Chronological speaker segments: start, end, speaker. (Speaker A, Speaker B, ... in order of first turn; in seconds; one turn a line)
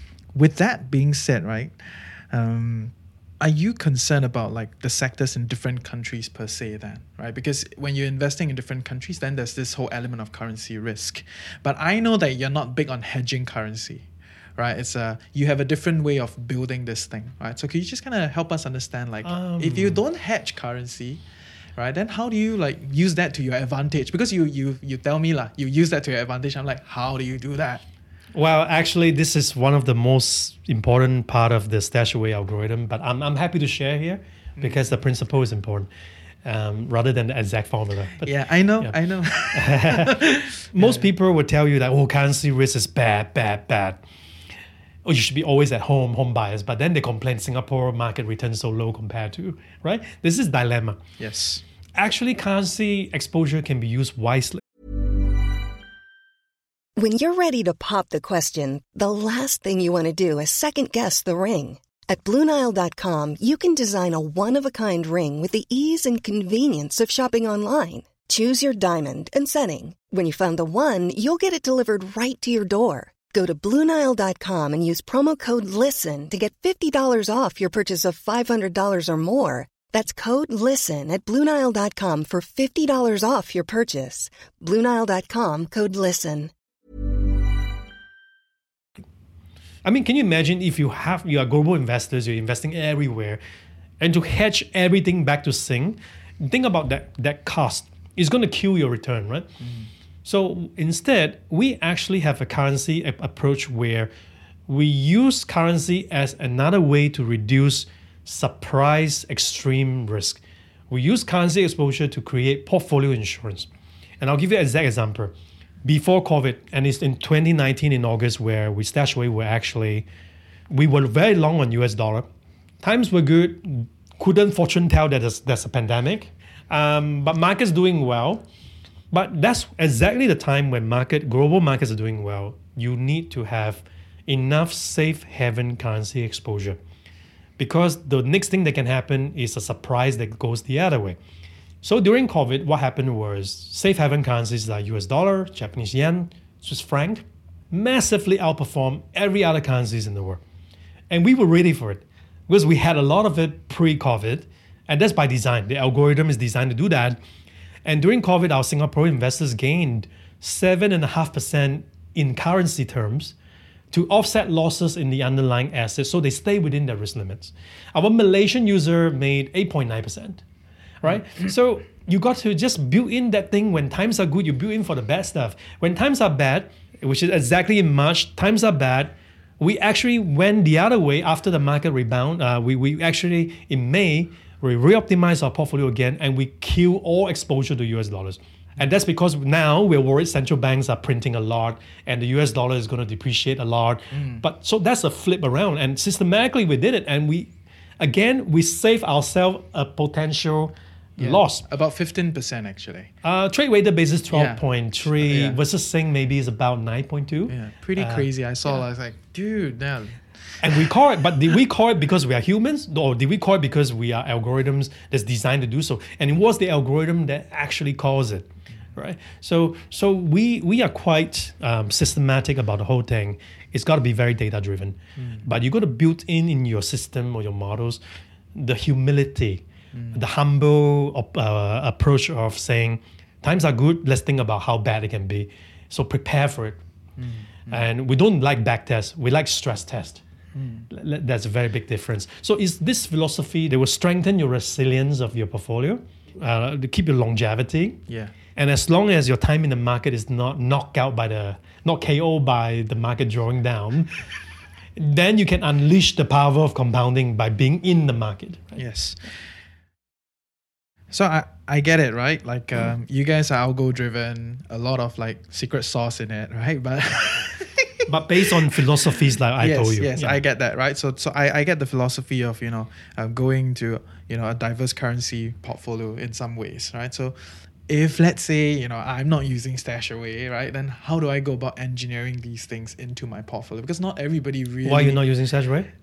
Speaker A: 0.3-21.2
Speaker B: 19.2-20.0
Speaker A: 21.8-27.8
Speaker B: 28.3-35.9
Speaker A: 34.6-35.0
Speaker B: 36.4-38.9
Speaker A: 38.2-41.1
Speaker B: 39.5-40.2
Speaker B: 40.7-44.0
Speaker B: 45.0-51.0
Speaker A: 51.2-51.6
Speaker B: 52.0-54.6
Speaker C: 57.0-86.5
Speaker B: 89.8-93.4
Speaker B: 94.0-99.5
Speaker A: 99.6-99.9
Speaker B: 100.2-104.1
Speaker B: 104.7-113.7
Speaker B: 114.2-115.3
Speaker B: 115.8-120.0
Speaker B: 120.7-122.3
Speaker B: 122.8-128.4
Speaker B: 129.1-136.8
Speaker B: 137.6-141.2
Speaker B: 141.8-150.4
Speaker B: 151.1-157.2
Speaker B: 157.8-163.3
Speaker B: 163.9-170.4
Speaker B: 171.0-201.6
Speaker A: 194.1-194.4
Speaker A: 201.2-203.1
Speaker B: 203.2-208.3
Speaker A: 204.3-205.6
Speaker A: 207.5-210.2
Speaker B: 210.6-228.0
Speaker A: 225.2-225.4
Speaker B: 228.6-236.8
Speaker A: 229.9-230.2
Speaker A: 237.2-237.8
Speaker B: 237.7-240.2
Speaker A: 240.5-240.9
Speaker B: 240.9-248.0
Speaker A: 248.1-248.3
Speaker B: 248.5-254.2
Speaker B: 255.0-258.8
Speaker A: 258.8-259.2
Speaker A: 261.1-268.1
Speaker B: 268.1-270.4
Speaker A: 269.6-277.4
Speaker A: 277.9-285.2
Speaker B: 284.8-285.9